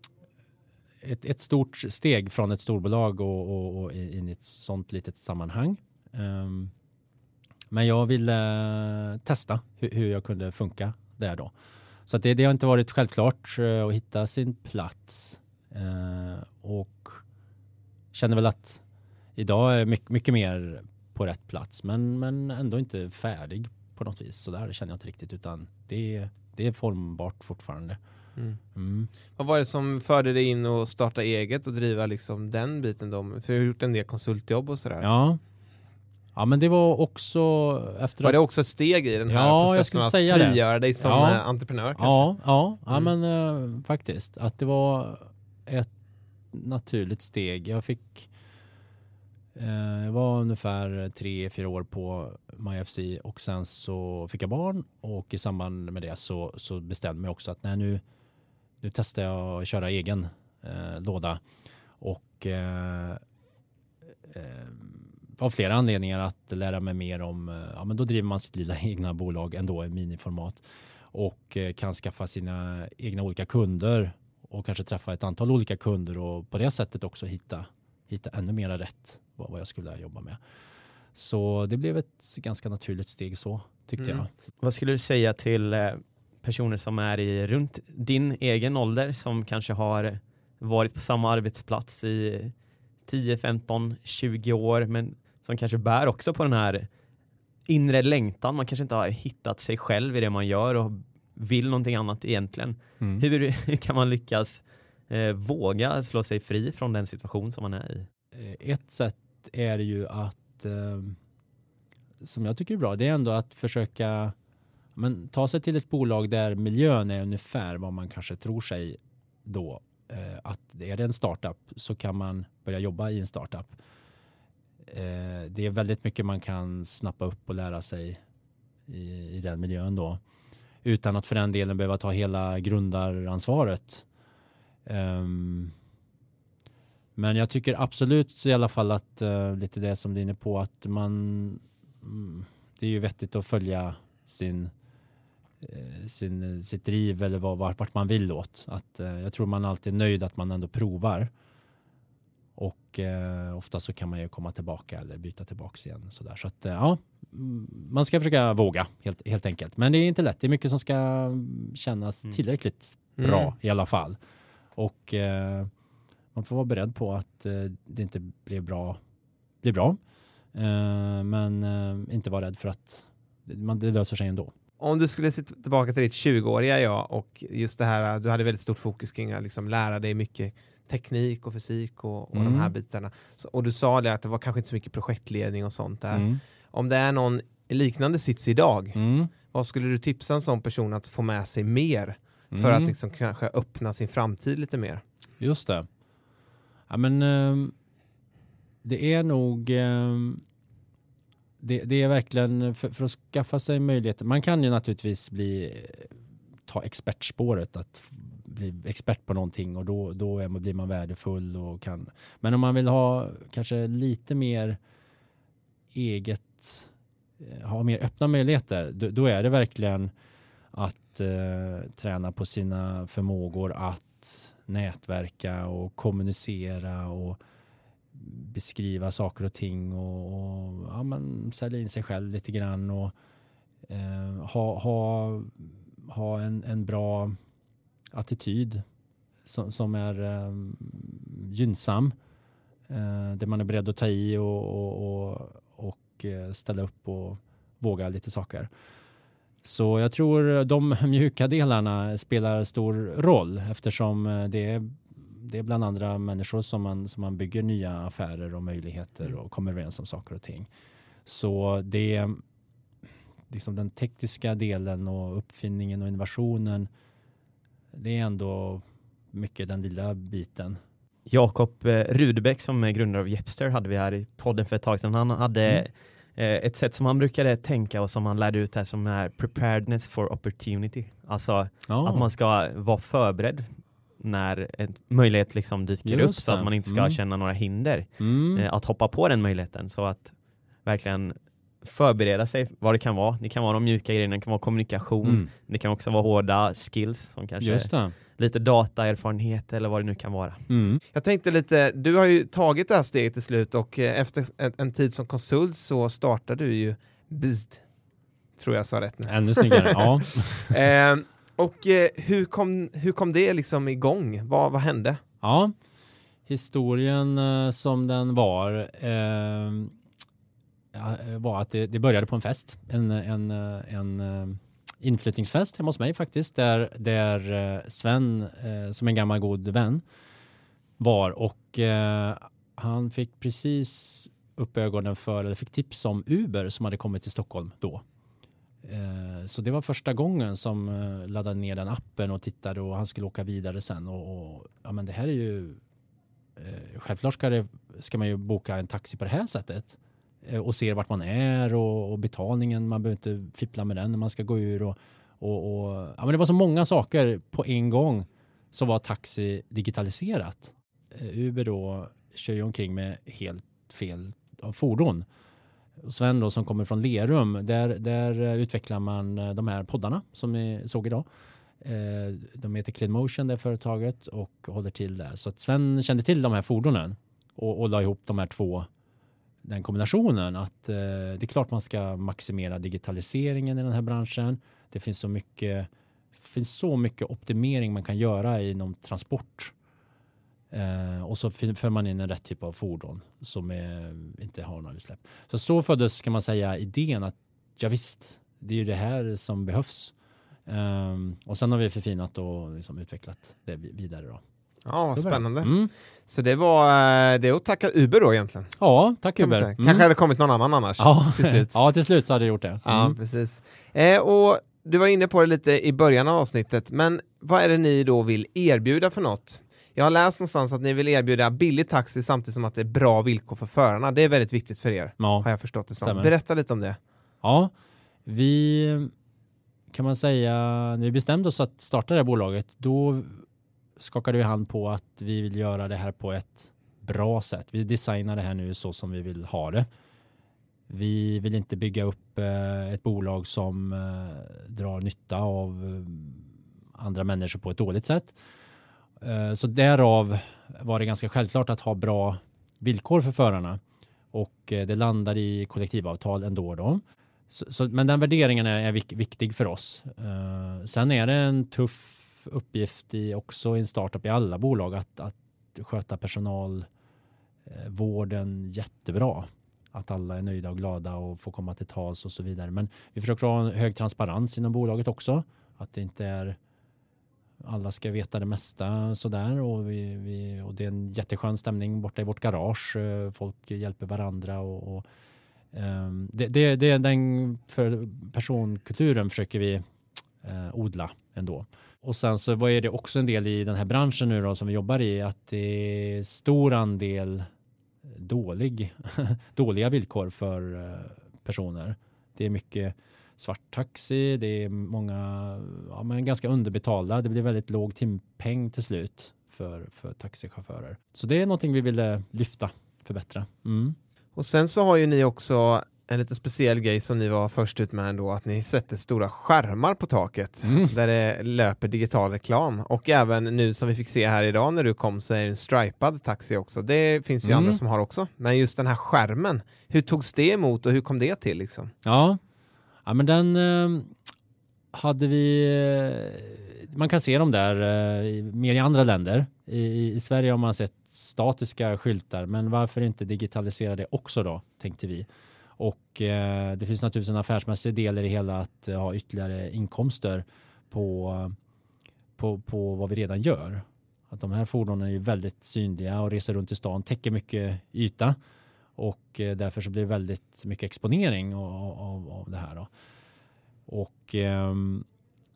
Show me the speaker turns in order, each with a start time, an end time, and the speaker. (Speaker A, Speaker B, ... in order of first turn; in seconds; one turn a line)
Speaker A: 1.0-6.7
Speaker A: 7.7-11.5
Speaker A: 12.1-17.2
Speaker A: 18.1-18.8
Speaker A: 19.4-28.0
Speaker A: 28.8-29.1
Speaker B: 29.4-35.1
Speaker A: 35.0-35.4
Speaker A: 36.4-38.4
Speaker B: 38.2-42.3
Speaker A: 39.3-41.4
Speaker A: 42.0-45.9
Speaker A: 46.5-48.3
Speaker A: 49.5-58.0
Speaker A: 58.8-61.4
Speaker A: 62.0-63.2
Speaker A: 64.3-80.4
Speaker A: 81.1-84.3
Speaker C: 84.6-92.5
Speaker C: 93.0-96.9
Speaker C: 97.7-108.1
Speaker A: 108.3-111.2
Speaker A: 112.2-114.3
Speaker A: 115.0-123.8
Speaker A: 124.9-128.2
Speaker A: 128.9-130.2
Speaker A: 130.8-134.1
Speaker A: 134.9-135.7
Speaker A: 137.2-144.7
Speaker A: 145.6-151.3
Speaker A: 152.6-164.2
Speaker B: 163.2-163.5
Speaker A: 164.8-165.7
Speaker A: 166.3-169.0
Speaker A: 169.6-170.0
Speaker A: 170.5-174.5
Speaker B: 174.8-189.0
Speaker A: 182.3-182.7
Speaker A: 186.1-186.4
Speaker A: 188.9-189.3
Speaker B: 189.5-195.0
Speaker A: 192.5-192.9
Speaker A: 195.4-195.9
Speaker A: 196.9-197.7
Speaker A: 198.8-200.4
Speaker A: 201.6-206.1
Speaker A: 206.7-214.8
Speaker A: 215.9-216.9
Speaker A: 217.4-220.1
Speaker A: 220.7-227.4
Speaker A: 228.1-233.1
Speaker A: 233.9-237.4
Speaker A: 238.1-238.8
Speaker A: 239.4-242.2
Speaker A: 242.9-248.7
Speaker A: 249.6-260.7
Speaker A: 261.3-262.4
Speaker A: 263.5-266.9
Speaker A: 267.9-270.8
Speaker C: 271.3-300.6
Speaker A: 281.9-282.3
Speaker A: 286.1-287.2
Speaker A: 288.2-288.6
Speaker A: 295.2-295.5
Speaker A: 297.6-298.1
Speaker A: 300.7-301.0
Speaker B: 301.1-307.8
Speaker B: 308.6-315.2
Speaker A: 309.3-310.7
Speaker A: 315.4-315.7
Speaker A: 316.5-319.9
Speaker A: 320.9-330.0
Speaker A: 331.0-338.0
Speaker A: 338.8-345.8
Speaker A: 346.6-365.3
Speaker A: 366.0-371.3
Speaker A: 371.8-378.9
Speaker A: 379.6-389.7
Speaker A: 390.7-400.1
Speaker A: 400.7-404.4
Speaker B: 404.9-405.7
Speaker A: 405.1-405.9
Speaker B: 406.3-408.7
Speaker A: 408.8-410.1
Speaker B: 409.4-411.8
Speaker A: 411.0-413.1
Speaker B: 412.9-427.0
Speaker A: 425.2-425.5
Speaker A: 426.0-426.3
Speaker A: 427.4-427.7
Speaker A: 428.3-429.1
Speaker A: 429.9-433.4
Speaker A: 434.0-439.9
Speaker A: 440.9-448.4
Speaker A: 449.2-453.8
Speaker A: 454.3-466.9
Speaker A: 467.6-476.6
Speaker A: 477.6-485.1
Speaker A: 485.7-489.8
Speaker A: 490.4-497.5
Speaker A: 498.1-514.0
Speaker B: 514.4-531.9
Speaker A: 520.6-520.9
Speaker A: 527.4-527.8
Speaker A: 532.0-532.4
Speaker A: 533.1-534.1
Speaker A: 534.9-545.3
Speaker A: 545.8-551.6
Speaker A: 552.4-558.4
Speaker A: 559.0-562.9
Speaker A: 563.9-565.1